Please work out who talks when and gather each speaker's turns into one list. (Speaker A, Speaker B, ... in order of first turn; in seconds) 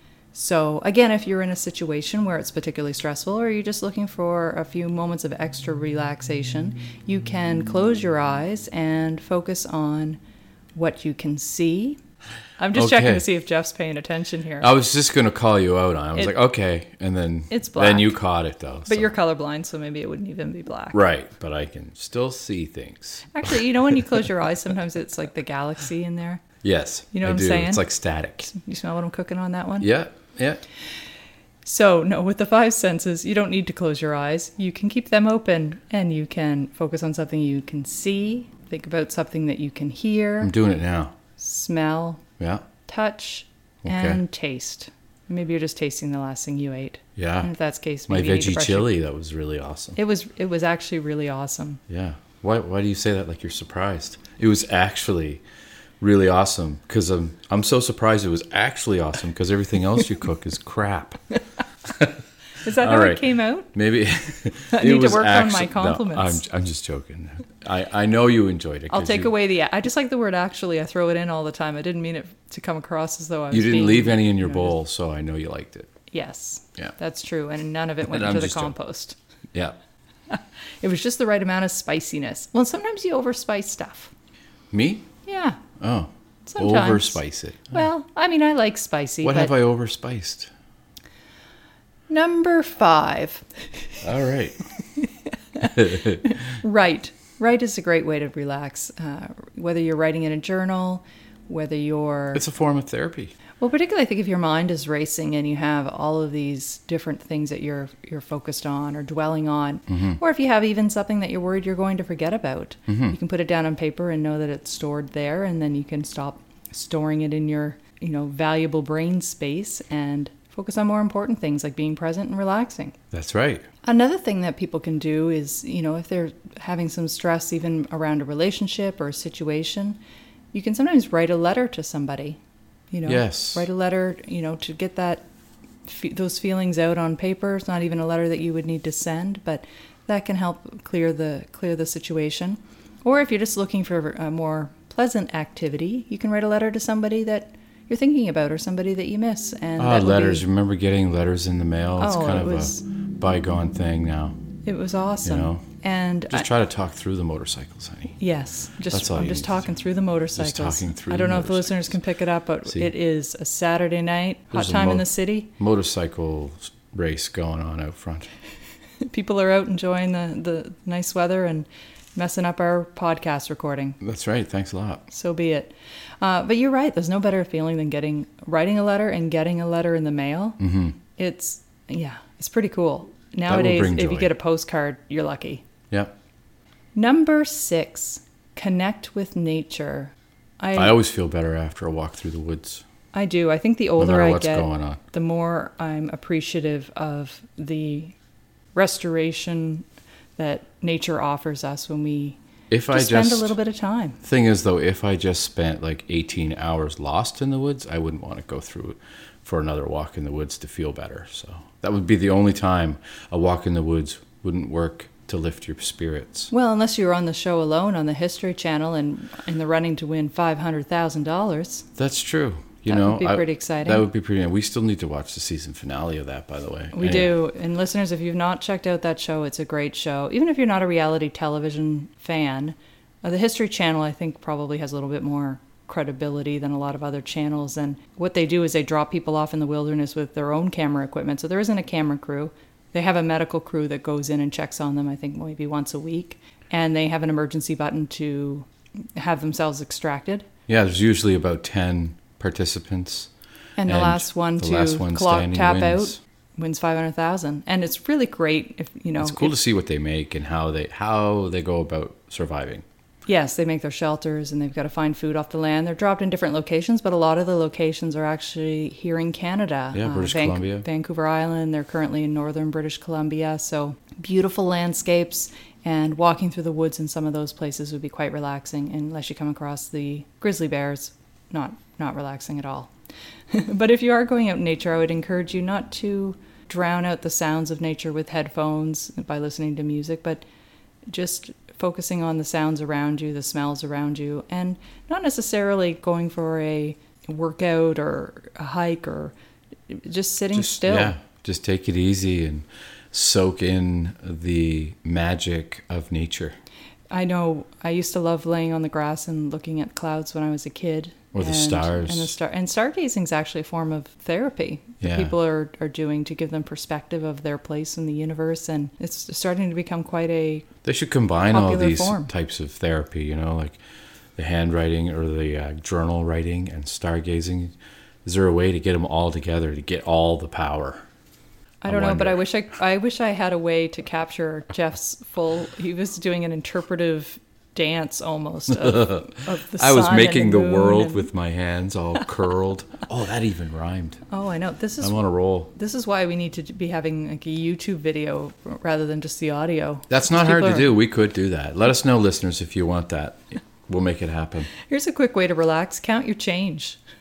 Speaker A: 0.3-10.2, 10.7-12.0, 12.6-14.7, 17.5-18.2, 18.9-21.0, 23.3-26.4, 27.1-27.8, 28.5-29.9, 31.6-40.5, 41.4-42.2, 42.9-48.9, 50.0-51.8, 62.6-63.7, 64.7-66.4, 68.9-74.7, 76.1-79.2, 80.3-84.1, 85.2-85.6, 86.5-89.5, 92.1-93.4, 95.6-102.4, 103.6-123.0, 123.8-130.0, 130.5-132.4, 132.9-135.2, 135.8-150.4, 152.0-152.8, 154.7-156.5, 158.2-165.5, 169.0-174.0, 175.1-180.6, 181.2-185.6, 186.9-191.0, 193.1-198.1, 198.7-199.8, 200.4-202.4, 202.9-204.2, 216.5-221.9, 222.8-224.1, 226.9-250.5, 253.8-259.5, 263.2-282.9, 283.5-290.4, 291.1-299.3, 299.9-301.1, 307.1-320.7, 321.5-322.3, 331.8-341.3, 344.3-345.1, 345.7-350.9, 354.7-357.0
Speaker B: 12.7-13.2, 14.6-19.1, 20.9-23.3, 26.6-28.5, 29.8-30.6, 40.4-41.1, 42.4-42.7, 43.8-44.2, 47.1-47.5, 48.1-50.0, 51.9-55.4, 56.0-61.2, 61.9-62.2, 62.8-69.3, 73.5-75.9, 78.0-78.7, 84.7-85.1, 85.8-87.8, 89.2-90.5, 94.0-94.6, 95.6-96.3, 102.3-103.3, 109.9-110.2, 112.9-113.2, 123.1-123.6, 133.1-133.7, 149.8-154.3, 155.2-155.6, 156.3-158.2, 158.9-159.6, 160.3-161.9, 162.7-162.9, 164.5-168.3, 174.0-175.1, 180.6-181.0, 183.5-184.3, 190.7-192.8, 194.0-195.0, 202.7-203.6, 204.2-216.5, 221.9-227.3, 250.7-253.3, 253.9-256.2, 259.2-262.8, 269.9-270.9, 300.5-306.6, 311.3-312.3, 315.0-315.3, 320.8-323.8, 324.4-327.7, 328.2-331.0, 331.9-332.4, 338.7-344.2, 345.0-345.7, 350.1-354.7